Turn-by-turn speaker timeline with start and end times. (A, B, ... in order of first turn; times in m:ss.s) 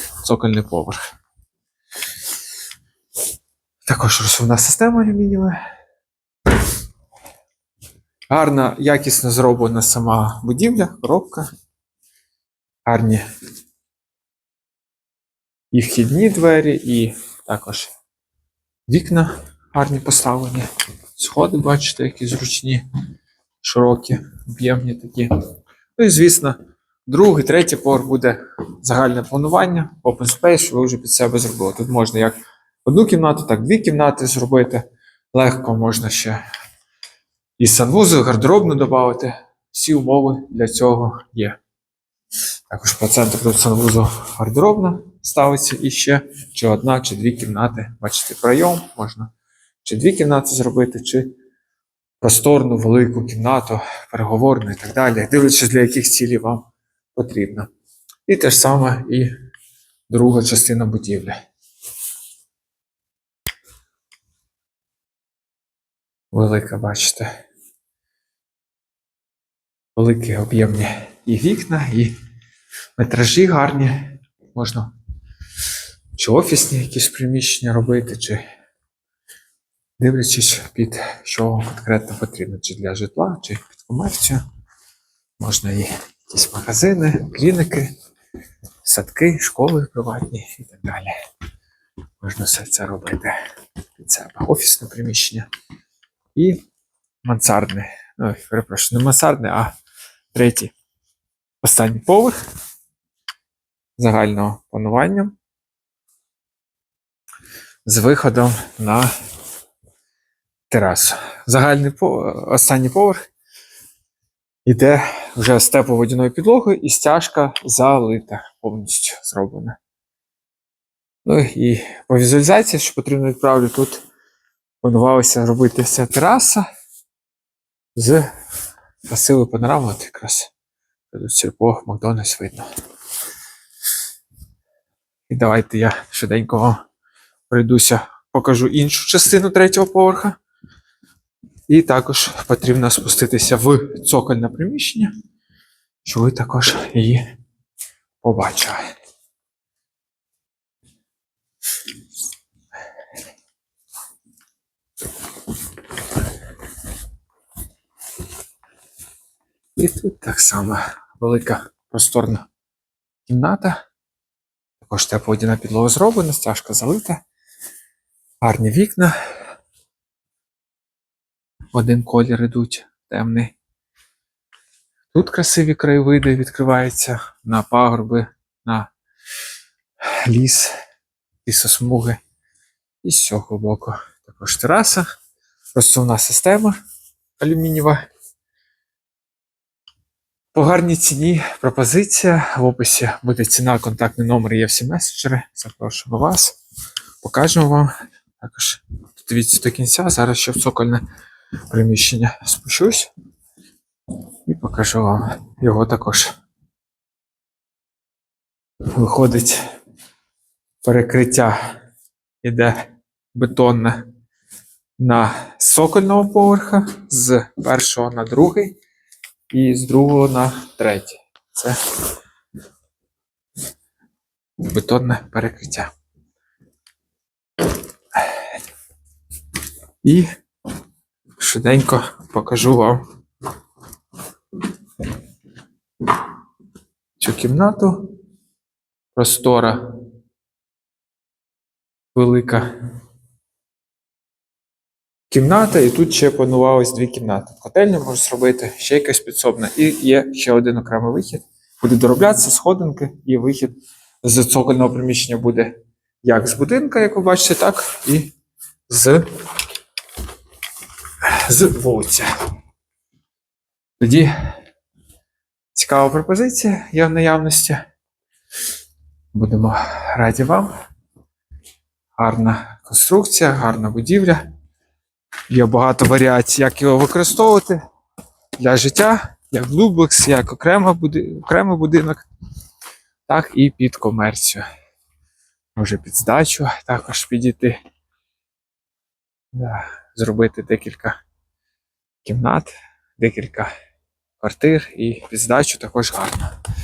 0:00.2-0:01.0 A
0:03.8-0:05.6 A
0:08.3-0:11.5 A
0:12.9-0:13.2 A
0:15.7-0:17.9 A
0:18.9-0:22.8 A
0:23.6-0:25.3 A
0:26.0-0:36.4 A
0:37.6-0:41.6 A
0:42.7-0:49.3 A
0:49.8-0:51.3 A
0:52.2-0:57.7 A
0:58.3-0:59.3 A
1:00.1-1:01.4 A
1:06.3-1:07.3 A
1:10.0-1:12.2 A
1:13.0-1:14.9 A
1:16.2-1:18.4 A
1:20.0-1:24.4 A
1:25.4-1:27.9 A
1:28.8-1:31.2 A
1:32.2-1:33.4 A
1:34.0-1:35.5 A
1:36.4-1:36.6 A
1:37.2-1:39.7 A
1:40.3-1:40.7 A
1:41.6-1:42.4 A
1:44.0-1:45.4 A
1:47.8-1:49.1 A
1:50.7-1:53.2 A
1:54.7-1:59.8 A
2:01.2-2:04.0 A
2:04.8-2:06.7 A
2:08.0-2:08.3 A
2:09.1-2:10.5 A
2:11.1-2:12.7 A
2:15.3-2:16.8 A
2:17.5-2:20.4 A
2:21.7-2:25.1 A
2:26.0-2:27.2 A
2:28.2-2:28.9 A
2:39.8-2:42.5 A
2:43.3-2:43.8 A
2:44.8-2:47.2 A
2:48.4-2:49.2 A
2:51.7-2:53.5 A
2:55.1-2:58.9 A
3:00.1-3:00.7 A
3:01.4-3:02.2 A
3:03.0-3:05.1 A
3:05.8-3:06.8 A
3:07.4-3:08.0 A
3:10.5-3:16.6 A
3:17.2-3:21.0 A
3:21.7-3:23.1 A
3:24.5-3:26.3 A
3:28.9-3:29.6 A
3:30.8-3:31.6 A
3:32.4-3:34.0 A
3:35.0-3:38.8 A
3:39.5-3:41.8 A
3:44.6-3:45.9 A
3:50.0-3:50.3 A
3:51.4-3:53.0 A
3:57.2-3:58.1 A
3:59.2-3:59.8 A
4:02.1-4:02.7 A
4:05.3-4:18.3 A
4:18.9-4:19.2 A
4:21.2-4:22.3 A
4:24.0-4:24.3 A
4:25.7-4:27.8 A
4:29.3-4:30.7 A
4:32.2-4:34.4 A
4:35.5-4:37.8 A
4:38.6-4:42.2 A
4:43.3-4:44.6 A
4:45.8-4:47.8 A
4:49.5-4:51.2 A
4:52.2-4:53.7 A
4:54.4-4:56.5 A